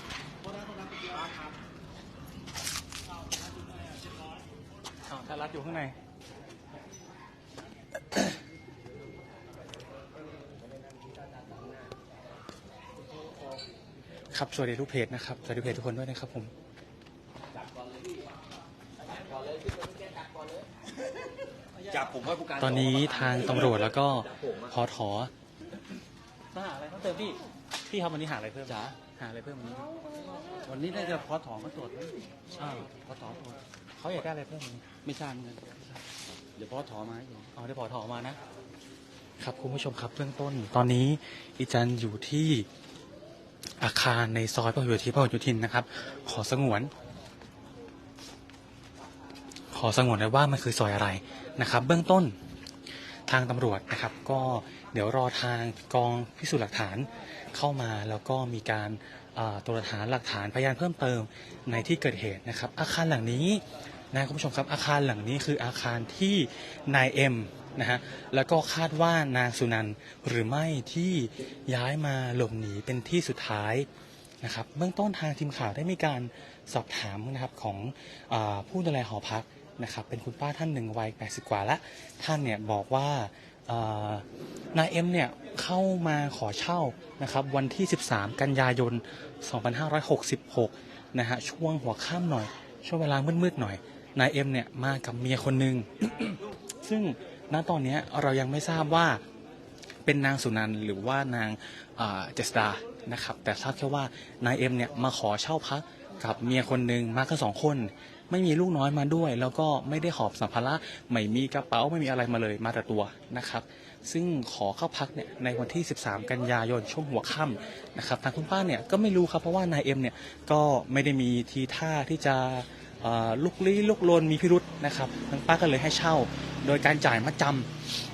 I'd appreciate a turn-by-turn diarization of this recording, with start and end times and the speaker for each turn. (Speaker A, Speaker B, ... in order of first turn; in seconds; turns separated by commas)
Speaker A: 5.1-5.9, Speaker A: 14.3-16.5, Speaker B: 21.9-23.5, Speaker A: 22.5-25.3, Speaker A: 26.5-29.9, Speaker B: 30.6-32.2, Speaker A: 32.6-33.1, Speaker B: 32.9-33.6, Speaker A: 34.0-35.0, Speaker B: 35.0-35.8, Speaker B: 36.4-37.5, Speaker A: 37.5-38.4, Speaker A: 39.4-42.7, Speaker A: 43.8-46.9, Speaker A: 49.7-52.4, Speaker A: 53.3-73.9, Speaker A: 74.4-99.2, Speaker A: 100.0-127.7